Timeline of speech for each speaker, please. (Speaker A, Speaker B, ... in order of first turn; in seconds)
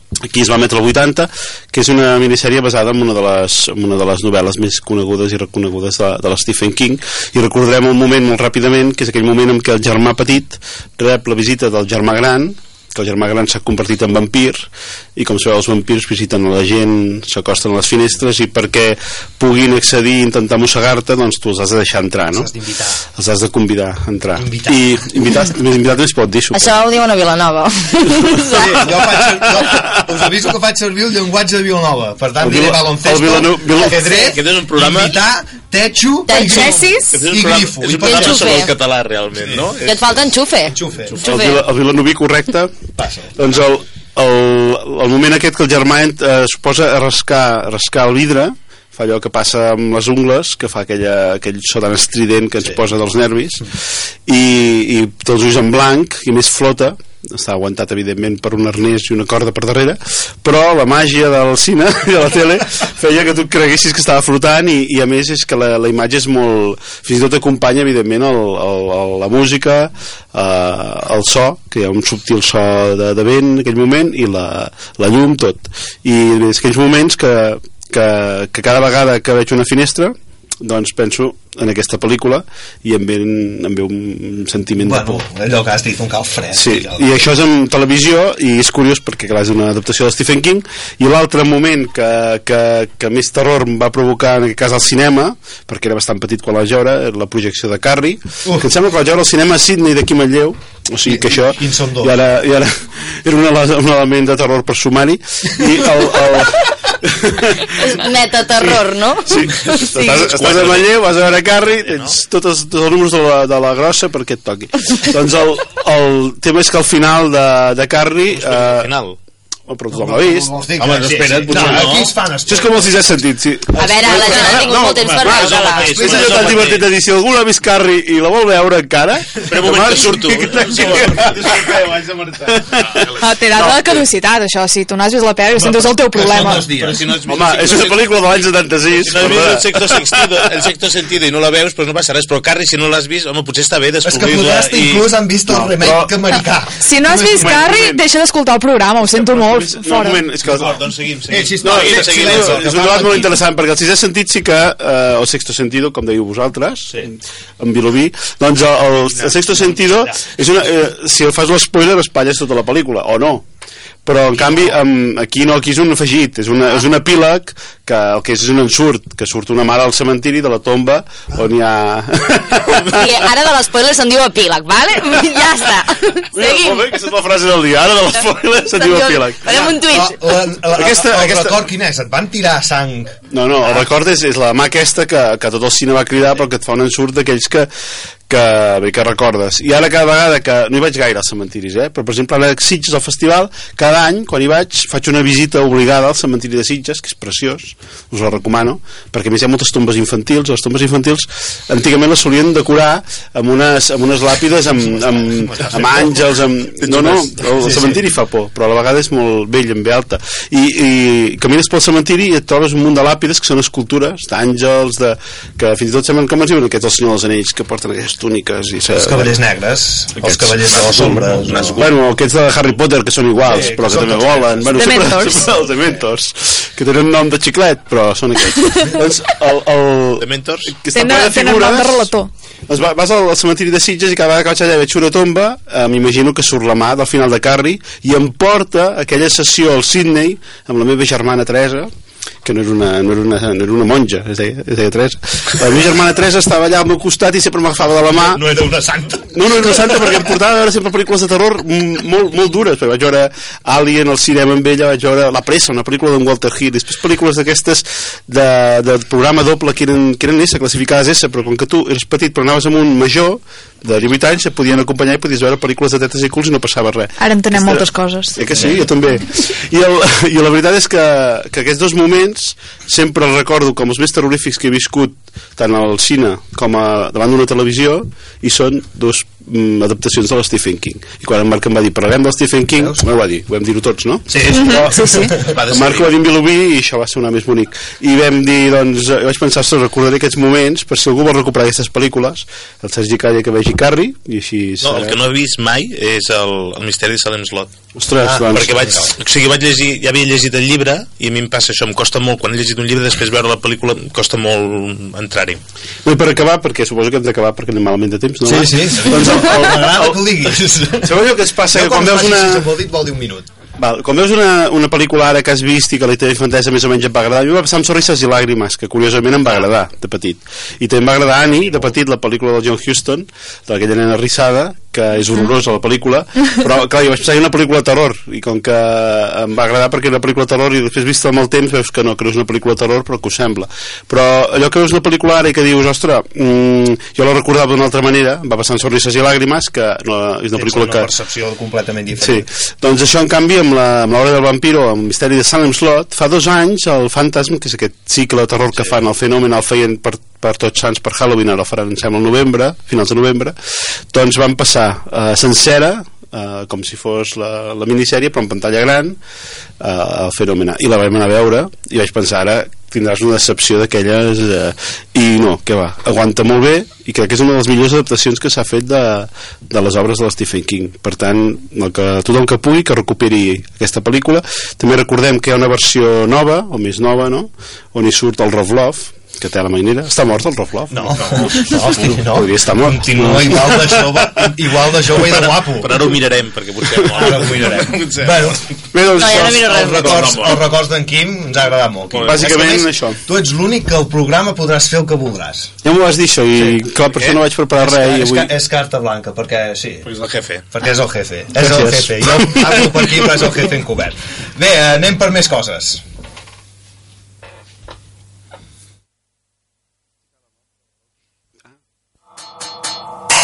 Speaker A: 0.3-22.5, 23.1-26.8, 32.4-34.0, 41.2-42.7, 43.4-53.7, 54.3-85.2, 86.5-107.8, 108.6-118.9, 119.7-133.1, 137.3-140.5, 145.5-146.1, 147.3-148.0, 149.1-150.8, 151.6-163.4, 164.1-173.1, 176.3-179.7, 180.8-181.5, 183.3-187.7, 188.3-219.3, 220.2-232.1, 232.7-241.9, 242.4-248.4, 249.3-295.2, 297.9-299.0, 306.1-310.2, 311.0-312.7, 313.8-341.1, 342.2-353.6, 354.1-359.2, 359.8-384.3, 387.0-387.4, 388.9-389.7, 392.2-393.2, 395.8-398.5, 401.6-402.8
Speaker B: 22.3-23.0, 24.4-24.8, 28.5-38.7, 39.4-39.8, 40.7-41.2, 43.0-43.5, 84.8-87.2, 98.4-98.7, 101.1-102.2, 119.9-123.0, 123.8-124.7, 125.8-126.7, 131.0-131.3, 135.6-137.0, 144.0-147.5, 151.3-153.4, 160.0-160.2, 164.4-164.7, 179.8-183.2, 205.4-206.2, 207.6-208.0, 218.9-221.8, 223.4-225.9, 248.0-249.3, 282.8-283.0, 284.3-285.4, 298.2-299.1, 308.4-311.2, 311.7-313.5, 340.6-342.5, 380.9-386.0, 387.1-388.7, 389.4-395.8, 397.8-400.1, 400.7-406.0
Speaker C: 26.5-28.9, 33.8-34.3, 36.3-37.1, 38.0-38.7, 39.8-41.6, 107.8-110.3, 123.7-126.2, 172.9-177.2, 178.2-180.2, 389.2-390.4
Speaker D: 34.2-35.2, 37.1-40.0, 110.0-110.9, 111.9-112.2, 118.3-119.2, 120.8-122.1, 124.1-126.9, 129.5-134.0, 136.7-145.1, 150.4-152.7, 205.6-206.2, 206.8-207.3, 221.4-221.9, 230.2-230.7, 285.4-286.1, 294.8-297.8, 298.5-305.6, 381.2-381.5, 385.3-388.6, 389.7-390.6, 392.1-392.5, 400.1-400.6
Speaker E: 133.2-136.7, 146.8-150.2, 224.8-225.5, 230.9-232.3, 267.2-268.4, 284.5-285.3